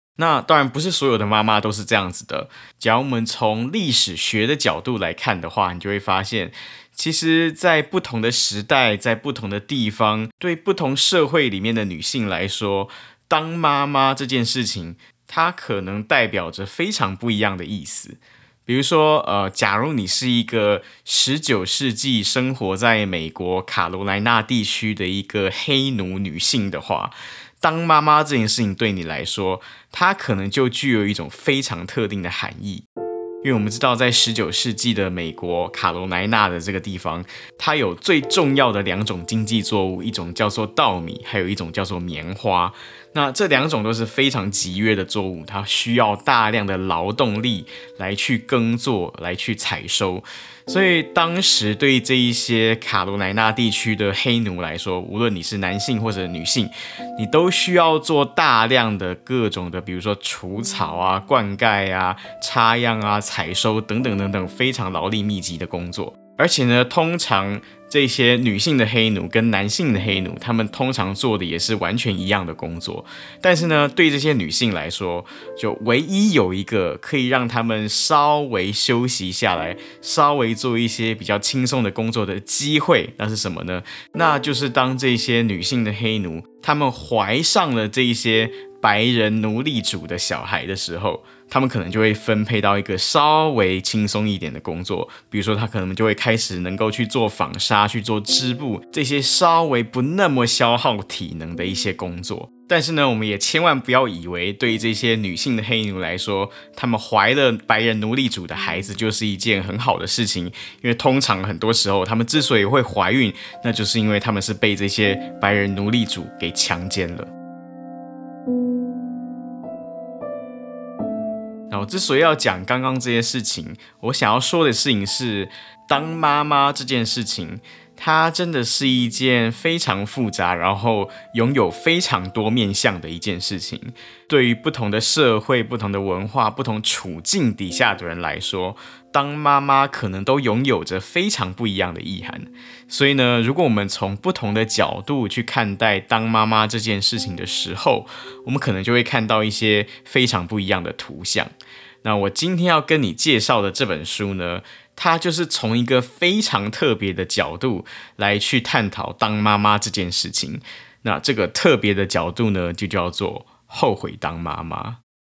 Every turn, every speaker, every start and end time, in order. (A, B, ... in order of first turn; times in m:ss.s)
0:00.2-0:32.8 A
0:33.4-1:57.3 A
2:01.7-2:45.0 A